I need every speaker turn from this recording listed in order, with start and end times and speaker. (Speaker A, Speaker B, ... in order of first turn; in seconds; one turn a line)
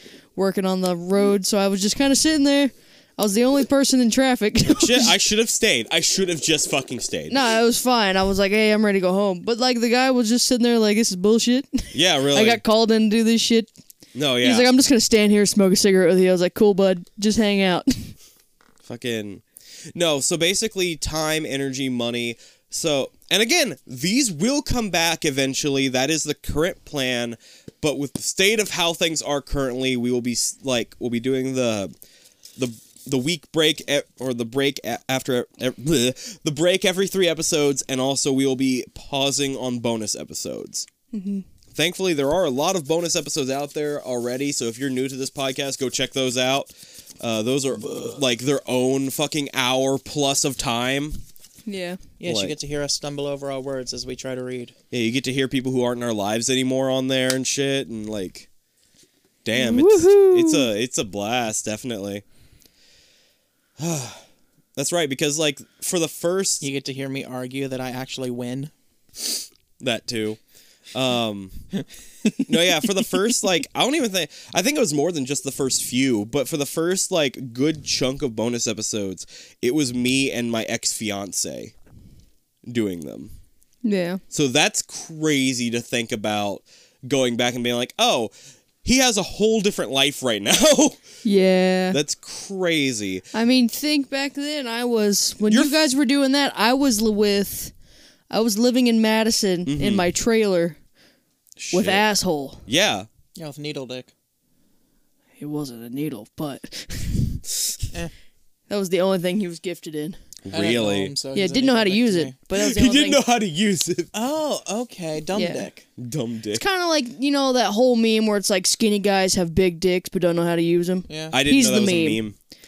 Speaker A: 0.3-5.1
Speaker B: 4.7-7.3
Speaker A: 7.3-13.7
Speaker B: 11.9-12.6
Speaker B: 14.2-14.7
Speaker A: 14.4-18.1
Speaker B: 18.9-19.4
Speaker B: 19.9-31.9
Speaker B: 32.6-40.9
Speaker A: 41.1-41.4
Speaker B: 41.8-51.2
Speaker A: 51.7-52.0
Speaker C: 52.2-54.8
Speaker B: 52.2-52.5
Speaker B: 54.9-58.5
Speaker B: 59.5-62.2
Speaker A: 59.6-60.7
Speaker B: 63.8-64.2
Speaker B: 64.8-66.7
Speaker C: 66.6-68.7
Speaker B: 69.8-70.4
Speaker B: 70.9-71.6
Speaker B: 72.4-81.7
Speaker B: 82.7-83.3
Speaker A: 83.8-84.2
Speaker B: 84.3-88.3
Speaker B: 88.8-91.0
Speaker A: 91.2-92.0
Speaker B: 91.9-93.2
Speaker A: 93.3-97.7
Speaker B: 95.5-95.8
Speaker A: 98.3-100.8
Speaker B: 99.7-100.1
Speaker B: 101.6-102.0
Speaker A: 101.7-102.6
Speaker B: 102.7-103.1
Speaker C: 103.3-104.1
Speaker A: 105.4-107.4
Speaker A: 108.7-110.2
Speaker B: 110.5-111.1
Speaker C: 110.5-112.3
Speaker A: 111.3-113.2
Speaker B: 112.6-114.1
Speaker C: 114.1-115.8
Speaker A: 115.3-115.7
Speaker B: 116.0-116.6
Speaker A: 116.5-122.2
Speaker C: 121.1-121.4
Speaker B: 121.3-122.3